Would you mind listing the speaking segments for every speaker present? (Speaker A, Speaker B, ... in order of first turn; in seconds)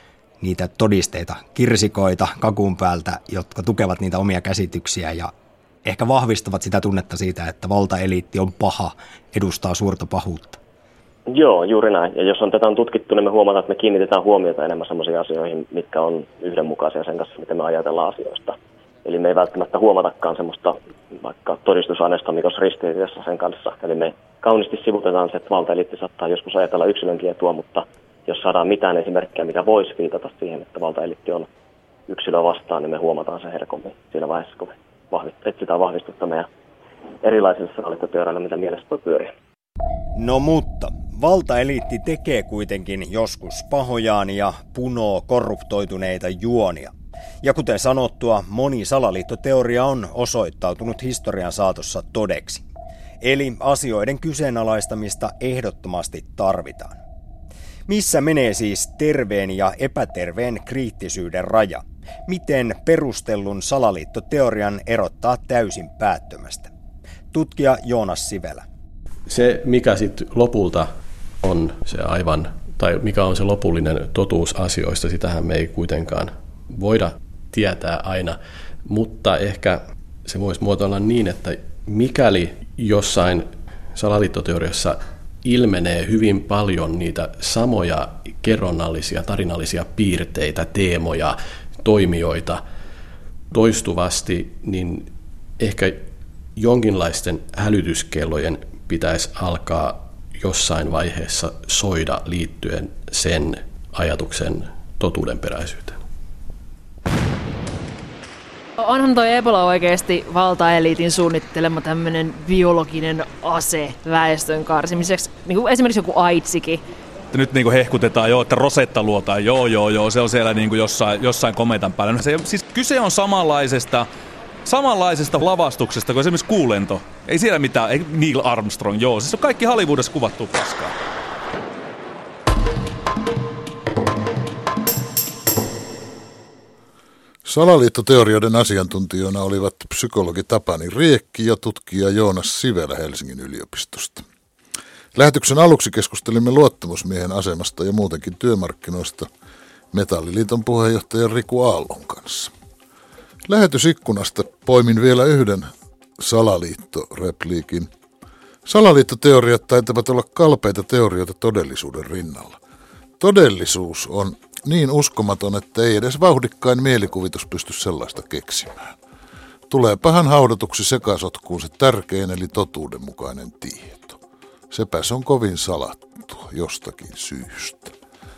Speaker A: 0.4-5.3, 5.8-10.6, 40.1-52.6, 53.2-57.0, 57.9-66.7, 67.3-68.6
Speaker B: 11.3-31.5, 32.1-36.5, 37.2-39.3
Speaker C: 69.3-70.9, 71.4-92.6, 93.5-106.0
Speaker D: 108.8-116.8
Speaker E: 117.3-124.1, 124.6-130.9
Speaker F: 137.4-144.2, 145.1-149.3, 149.9-152.5, 153.5-157.9, 158.6-162.6, 163.2-169.0, 169.7-174.2, 174.7-177.9